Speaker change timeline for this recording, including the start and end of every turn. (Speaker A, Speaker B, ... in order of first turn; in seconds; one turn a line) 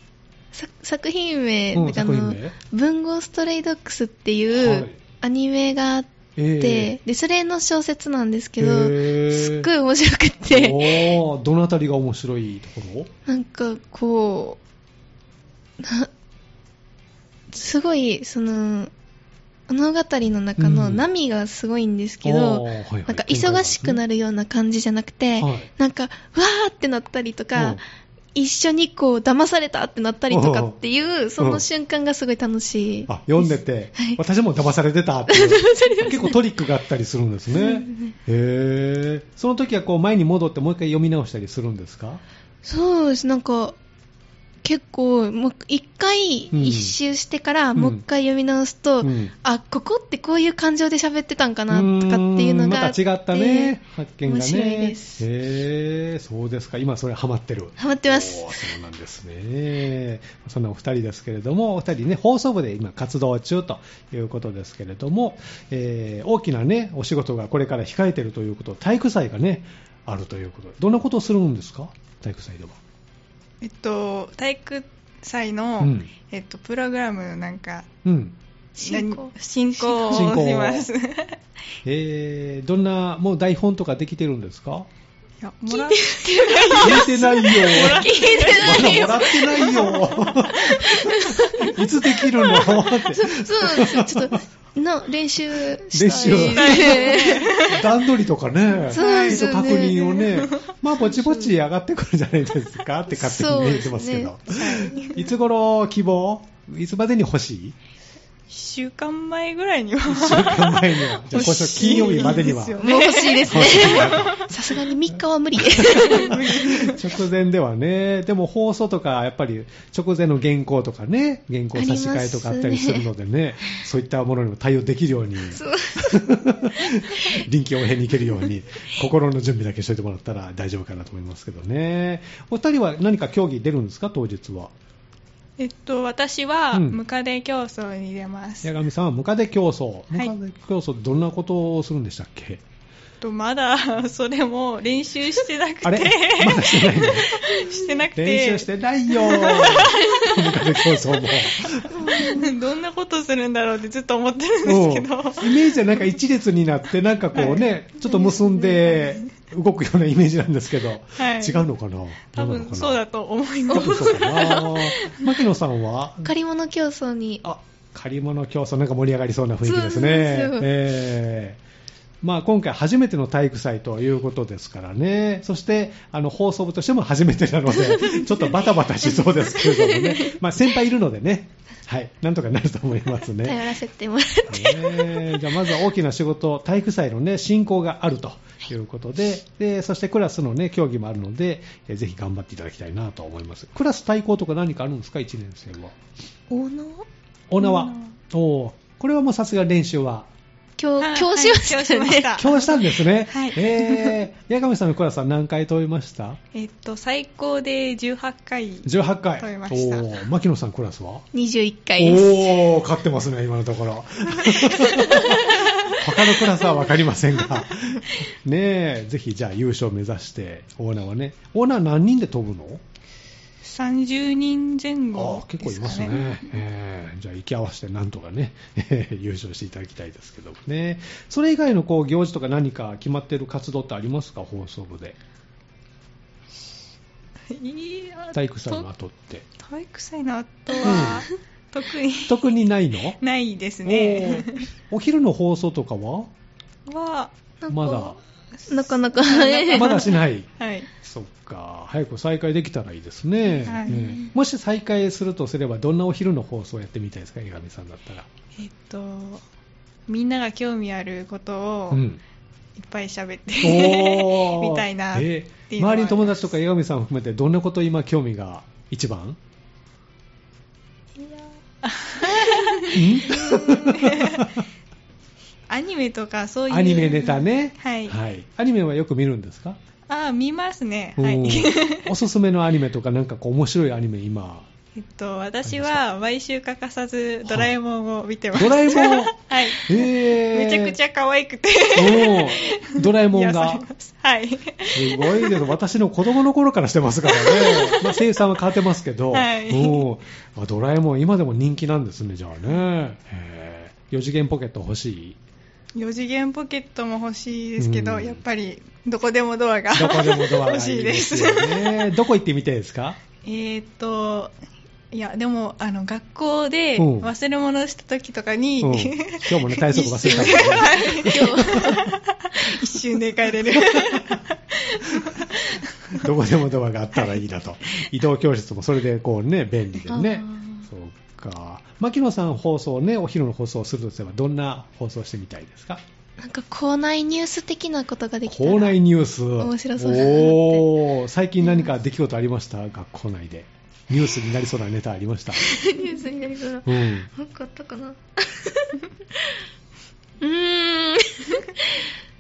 Speaker A: 0.5-11.2
Speaker B: 1.7-2.5
Speaker B: 4.5-5.0
Speaker B: 6.4-7.0
Speaker B: 8.6-9.7
Speaker B: 10.5-13.1
Speaker A: 13.3-14.6
Speaker A: 15.8-16.1
Speaker A: 17.5-18.9
Speaker A: 19.7-27.8
Speaker B: 20.6-21.1
Speaker B: 22.2-24.0
Speaker B: 25.4-25.7
Speaker A: 28.4-34.2
Speaker B: 30.3-30.8
Speaker B: 31.4-31.6
Speaker B: 33.1-42.2
Speaker A: 35.3-36.4
Speaker A: 37.5-38.1
Speaker A: 42.6-43.8
Speaker A: 44.6-53.8
Speaker B: 46.5-47.0
Speaker B: 47.8-48.0
Speaker B: 49.0-49.3
Speaker B: 51.7-72.8
Speaker A: 54.3-55.2
Speaker A: 57.8-58.7
Speaker C: 73.6-77.9
Speaker B: 75.8-76.1
Speaker B: 78.0-78.4
Speaker A: 78.8-80.4
Speaker C: 78.8-81.4
Speaker B: 80.1-80.9
Speaker B: 81.8-84.9
Speaker C: 85.4-90.5
Speaker A: 85.7-97.5
Speaker B: 86.7-94.4
Speaker B: 95.9-107.8
Speaker C: 96.3-97.9
Speaker A: 98.9-100.1
Speaker C: 98.9-101.5
Speaker A: 103.1-104.3
Speaker C: 104.5-105.2
Speaker C: 108.5-114.4
Speaker B: 110.1-112.9
Speaker A: 111.9-116.6
Speaker B: 113.5-114.4
Speaker B: 115.6-134.7
Speaker C: 115.9-117.0
Speaker A: 121.8-123.1
Speaker A: 125.5-126.3
Speaker A: 126.8-127.4
Speaker C: 135.6-138.7
Speaker B: 136.7-137.0
Speaker B: 138.6-142.6
Speaker C: 143.2-156.0
Speaker B: 145.8-147.4
Speaker B: 148.2-152.0
Speaker A: 151.9-152.5
Speaker B: 154.7-163.0
Speaker C: 157.3-159.3
Speaker C: 161.2-161.7
Speaker C: 162.3-165.4
Speaker B: 163.7-166.3
Speaker A: 166.2-167.4
Speaker B: 167.4-171.6
Speaker A: 169.6-170.7
Speaker B: 172.2-183.7
Speaker A: 177.9-178.4
Speaker A: 179.6-180.3
Speaker A: 183.4-185.7
Speaker B: 184.5-195.9
Speaker A: 196.5-197.1
Speaker B: 197.5-200.3
Speaker C: 197.6-198.2
Speaker A: 200.8-202.4
Speaker C: 201.0-204.2
Speaker B: 202.4-206.4
Speaker C: 206.5-210.1
Speaker B: 208.8-211.3
Speaker A: 211.3-212.6
Speaker B: 212.0-222.8
Speaker C: 223.6-226.6
Speaker B: 225.2-235.2
Speaker C: 237.5-238.9
Speaker B: 238.3-239.5
Speaker C: 239.6-242.5
Speaker A: 240.7-241.1
Speaker B: 240.8-241.2
Speaker B: 242.3-243.2
Speaker C: 243.2-244.7
Speaker B: 243.8-246.3
Speaker C: 246.9-247.3
Speaker A: 247.6-248.2
Speaker B: 247.7-248.2
Speaker A: 248.7-250.1
Speaker C: 248.7-250.9
Speaker B: 249.7-250.5
Speaker B: 251.0-258.3
Speaker A: 253.5-254.3
Speaker C: 253.7-254.1
Speaker C: 258.6-259.4
Speaker C: 260.1-262.0
Speaker B: 261.9-262.2
Speaker C: 262.8-266.4
Speaker B: 263.6-269.4
Speaker C: 271.2-274.5
Speaker B: 272.9-274.7
Speaker C: 275.7-278.2
Speaker B: 276.7-279.8
Speaker C: 280.1-282.1
Speaker B: 281.2-284.7
Speaker C: 285.0-295.7
Speaker B: 285.6-286.0
Speaker B: 287.5-287.7
Speaker B: 288.5-291.0
Speaker B: 291.9-293.9
Speaker B: 294.9-305.4
Speaker C: 297.2-298.4
Speaker C: 299.3-300.1
Speaker C: 306.0-312.1
Speaker B: 307.8-308.4
Speaker B: 309.9-313.2
Speaker C: 313.4-314.5
Speaker C: 315.1-326.3
Speaker B: 317.0-317.3
Speaker B: 318.8-322.1
Speaker A: 320.3-322.1
Speaker B: 323.7-324.4
Speaker B: 326.1-336.0
Speaker A: 330.1-330.8
Speaker A: 336.4-339.0
Speaker B: 338.5-345.8
Speaker A: 339.6-340.9
Speaker A: 341.6-341.9
Speaker A: 345.5-349.6
Speaker B: 346.9-347.3
Speaker A: 350.4-352.1